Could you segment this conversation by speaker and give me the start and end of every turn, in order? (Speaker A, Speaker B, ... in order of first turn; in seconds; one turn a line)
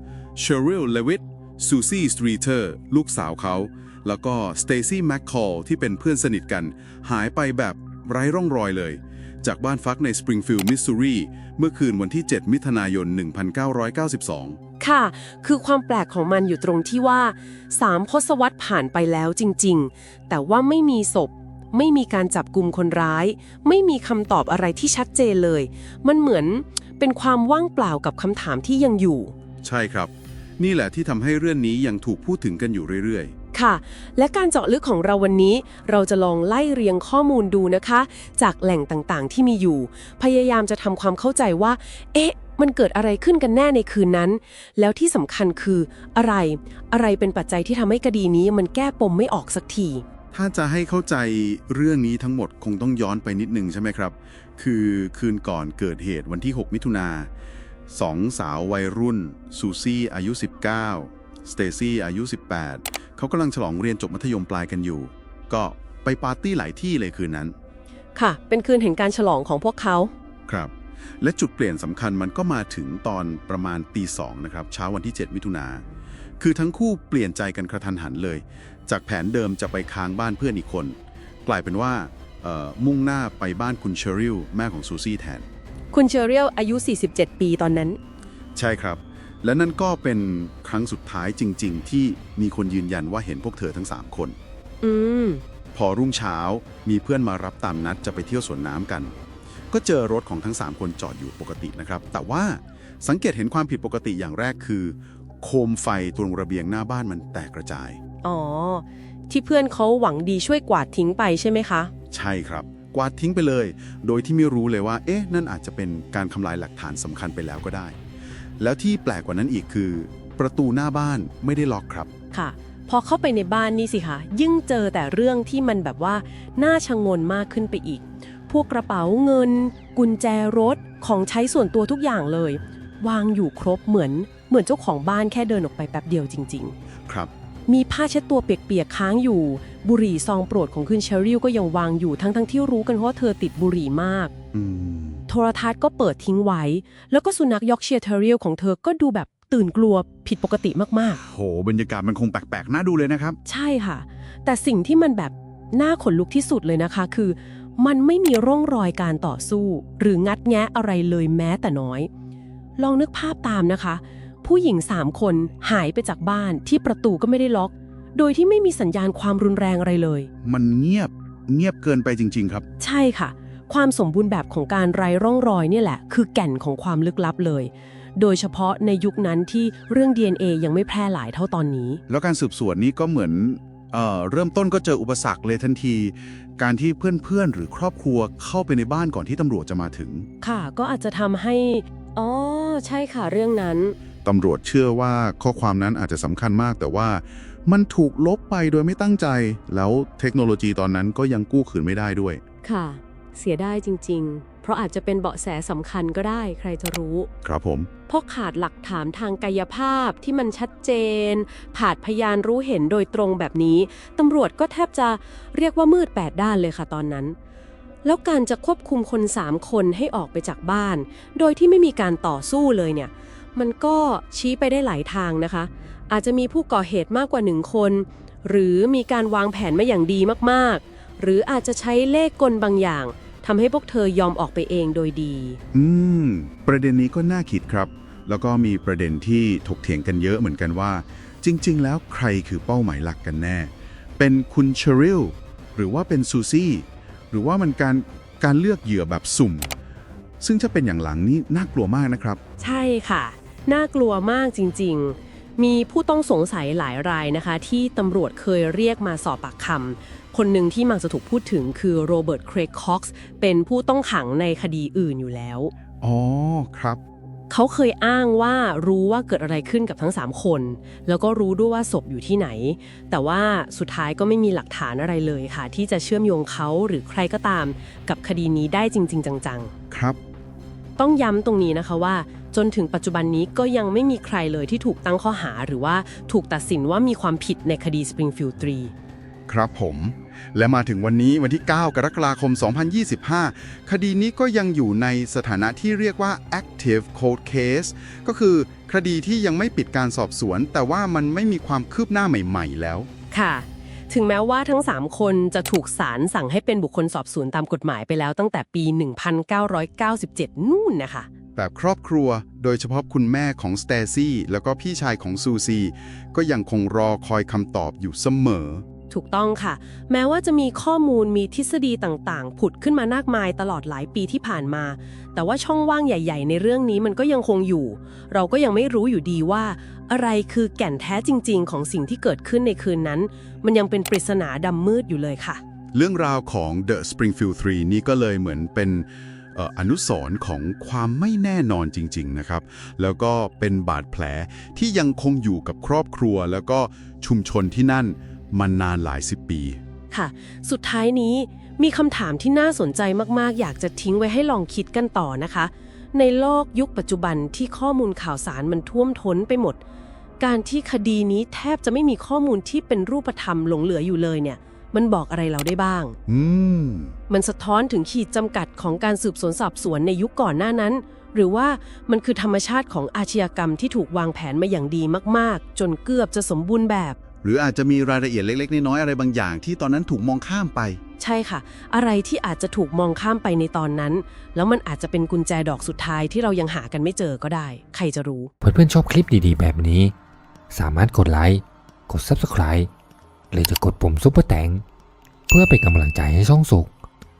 Speaker A: 0.3-14.6
Speaker B: 14.8-29.3
Speaker A: 29.6-33.3
Speaker B: 33.5-50.0
Speaker A: 50.3-57.3
Speaker A: 57.9-67.5
Speaker B: 68.1-70.1
Speaker A: 70.5-75.8
Speaker A: 76.4-85.4
Speaker B: 85.9-88.0
Speaker A: 88.5-94.3
Speaker B: 94.8-95.4
Speaker A: 95.7-99.1
Speaker A: 99.7-108.0
Speaker B: 108.2-111.9
Speaker A: 112.1-118.0
Speaker A: 118.6-122.1
Speaker B: 122.3-136.7
Speaker A: 137.1-137.3
Speaker B: 137.7-144.3
Speaker A: 144.5-145.2
Speaker B: 145.3-151.2
Speaker A: 151.2-153.4
Speaker B: 153.4-162.1
Speaker B: 162.8-170.3
Speaker A: 170.4-172.6
Speaker B: 172.8-182.0
Speaker A: 182.1-190.3
Speaker B: 190.4-193.9
Speaker A: 194.2-202.4
Speaker B: 202.6-207.3
Speaker A: 207.4-207.9
Speaker B: 208.1-217.4
Speaker B: 218.0-235.6
Speaker A: 235.7-249.7
Speaker A: 250.4-252.4
Speaker B: 252.6-265.7
Speaker A: 266.0-267.0
Speaker B: 267.5-279.7
Speaker A: 279.9-280.2
Speaker B: 281.0-288.9
Speaker A: 289.5-303.1
Speaker B: 303.3-311.3
Speaker A: 311.6-318.8
Speaker B: 319.1-335.6
Speaker A: 335.9-349.8
Speaker B: 350.1-359.8
Speaker B: 360.4-366.1
Speaker A: 366.3-367.1
Speaker B: 367.3-377.2
Speaker A: 377.4-381.0
Speaker B: 381.2-388.5
Speaker C: 388.6-390.1
Speaker C: 390.7-392.9
Speaker C: 393.5-394.8
Speaker C: 395.5-396.9